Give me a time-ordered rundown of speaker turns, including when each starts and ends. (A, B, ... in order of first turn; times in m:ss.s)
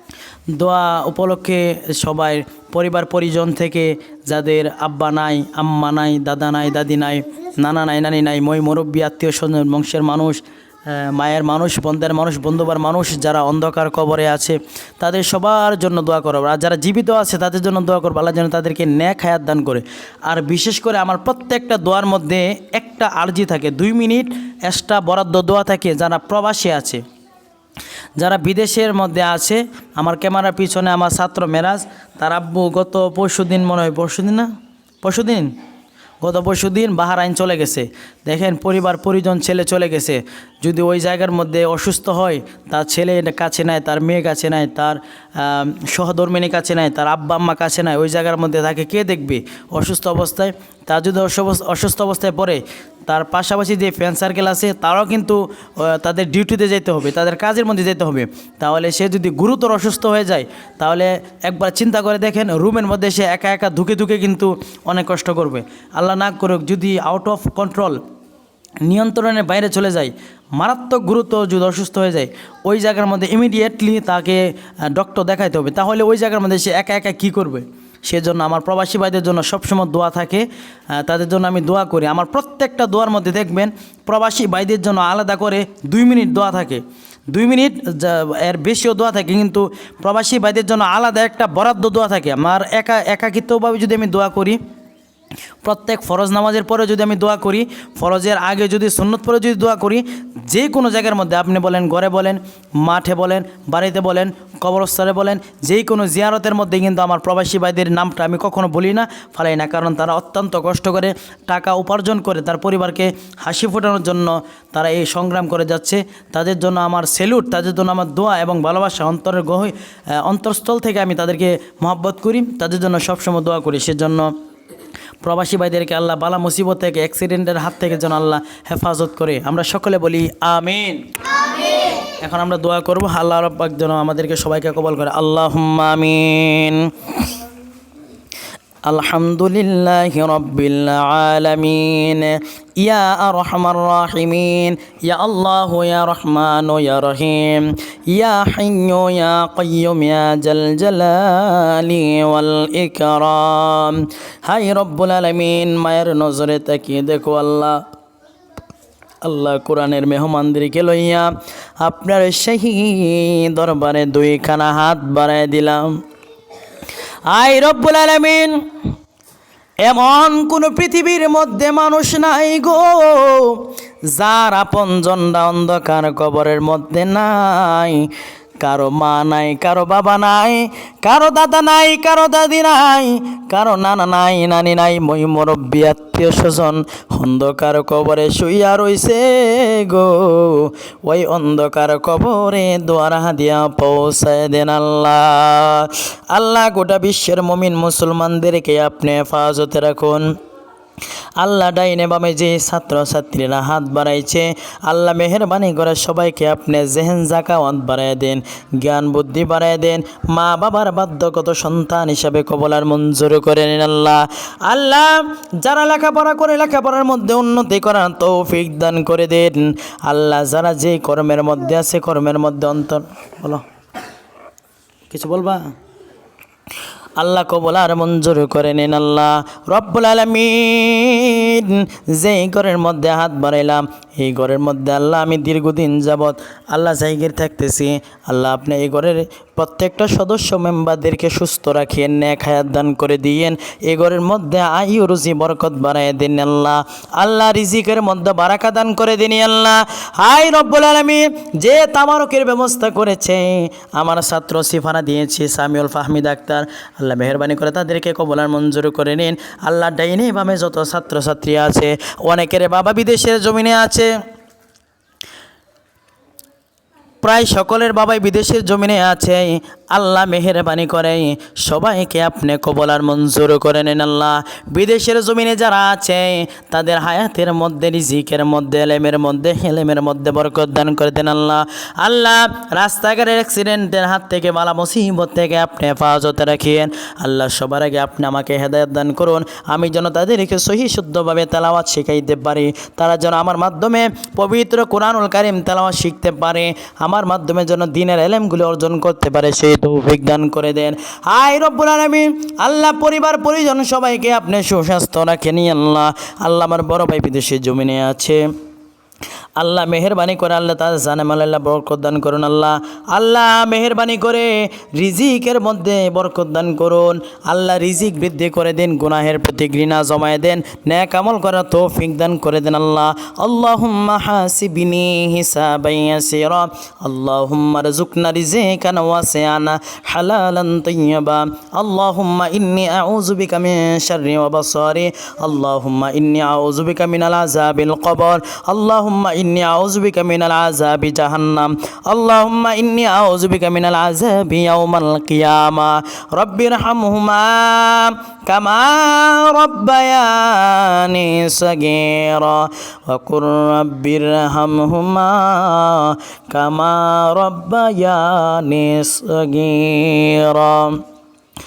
0:00.5-0:27.0 A
0:28.2-0:34.5 A
0:35.0-0:35.5 A
0:36.2-1:08.0 A
1:08.8-1:34.6 A
1:35.6-2:04.3 A
2:05.2-2:11.0 A
2:12.2-2:17.3 A
2:18.9-2:37.8 A
2:39.2-2:41.3 A
2:41.8-2:46.0 A
2:47.3-2:48.7 A
2:49.8-2:58.1 A
2:58.6-3:20.3 A
3:21.4-3:43.6 A
3:45.1-3:45.6 A
3:47.2-4:24.1 A
4:27.2-5:08.4 A
5:09.6-6:01.0 A